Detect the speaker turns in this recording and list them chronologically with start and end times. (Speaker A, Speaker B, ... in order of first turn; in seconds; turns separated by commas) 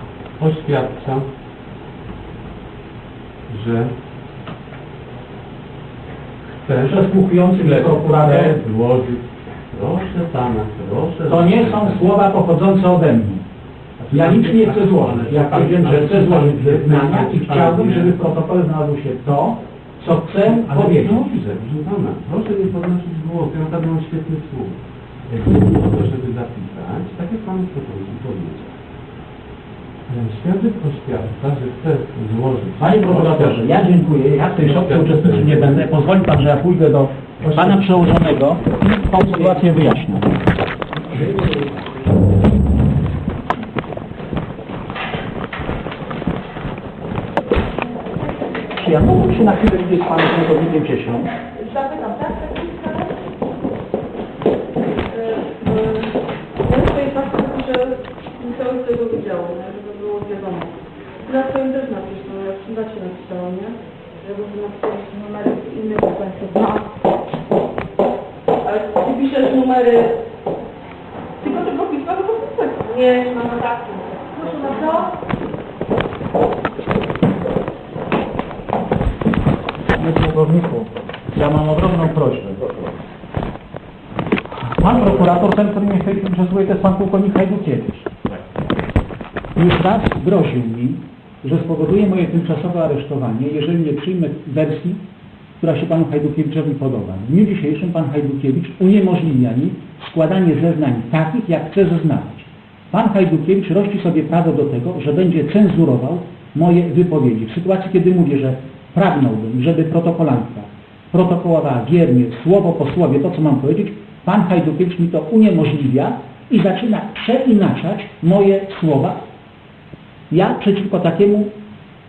Speaker A: 0.4-1.2, Speaker A: 3.5-3.9, Speaker A: 6.7-7.0, Speaker B: 6.8-8.6, Speaker A: 7.5-12.1, Speaker B: 11.3-13.4, Speaker A: 14.0-18.2, Speaker B: 14.1-21.2, Speaker A: 20.4-28.8, Speaker A: 30.1-33.9, Speaker B: 32.8-40.4, Speaker A: 34.6-35.9, Speaker A: 37.4-39.7, Speaker A: 40.9-42.3, Speaker B: 48.7-51.3, Speaker C: 51.5-53.1, Speaker C: 55.1-60.7, Speaker C: 61.2-66.9, Speaker C: 68.6-70.2, Speaker C: 71.4-75.1, Speaker B: 79.9-82.7, Speaker B: 84.6-88.1, Speaker B: 89.5-95.0, Speaker B: 95.6-119.2, Speaker B: 120.3-121.5